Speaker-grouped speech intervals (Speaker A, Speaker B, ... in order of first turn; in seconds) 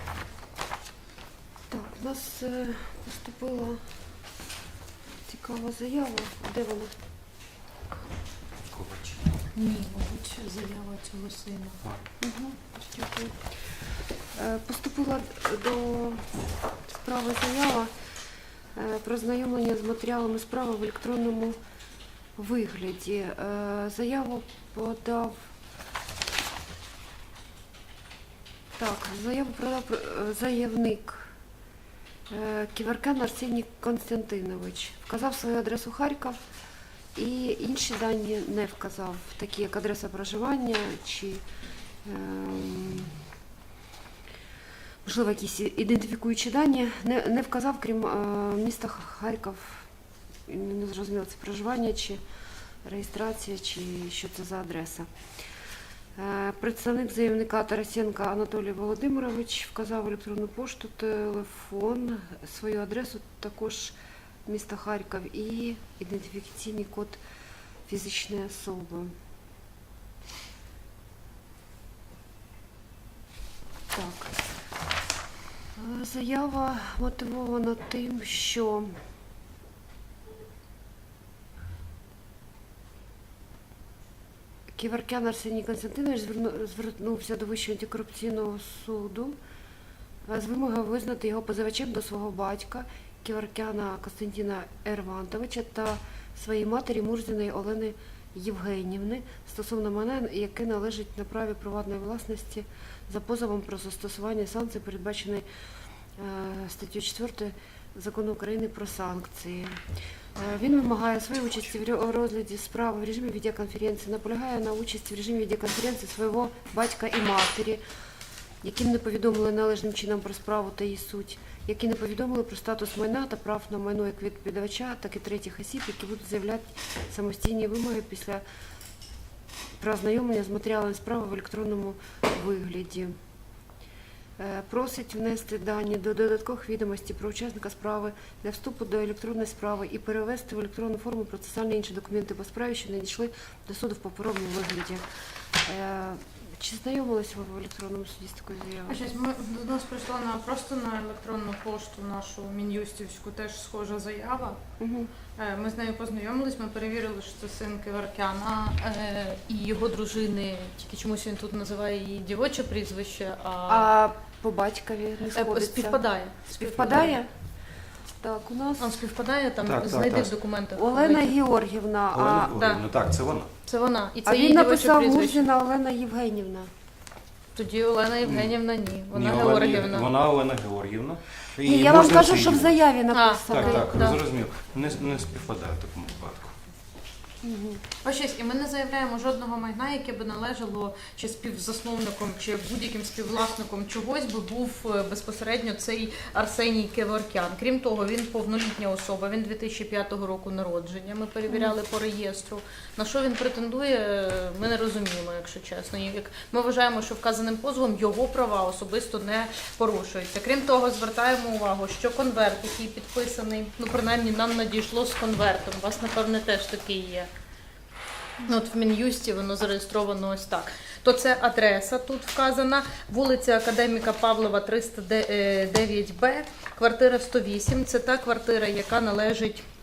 Speaker A: 1.7-3.8, 5.3-6.9, 12.2-13.7, 14.4-16.3, 16.9-17.9, 18.8-21.6, 22.4-25.4, 28.8-31.3, 32.3-36.4, 37.1-41.4, 42.0-43.2, 45.0-49.9, 50.5-52.2, 52.9-55.1, 56.2-67.2, 67.9-69.1, 73.9-74.3, 75.8-79.0, 84.8-89.4, 90.3-105.5, 106.2-109.8, 110.3-117.8, 118.6-128.4, 129.8-133.2, 134.4-145.0, 145.6-149.0, 154.8-155.1, 163.7-166.0, 166.5-167.3, 168.2-169.0, 170.8-172.5, 174.3-176.7, 181.6-183.9, 187.4-187.8, 201.5-201.8
Speaker B: 8.7-9.2, 169.7-170.3, 172.1-173.5, 178.2-178.6, 179.1-182.8, 183.5-186.6
Speaker C: 9.5-11.8, 148.9-154.6, 155.4-163.9, 165.3-167.2, 168.8-171.4, 172.5-172.8, 173.7-175.5, 177.6-180.1, 183.1-184.2, 188.0-217.3, 218.4-229.7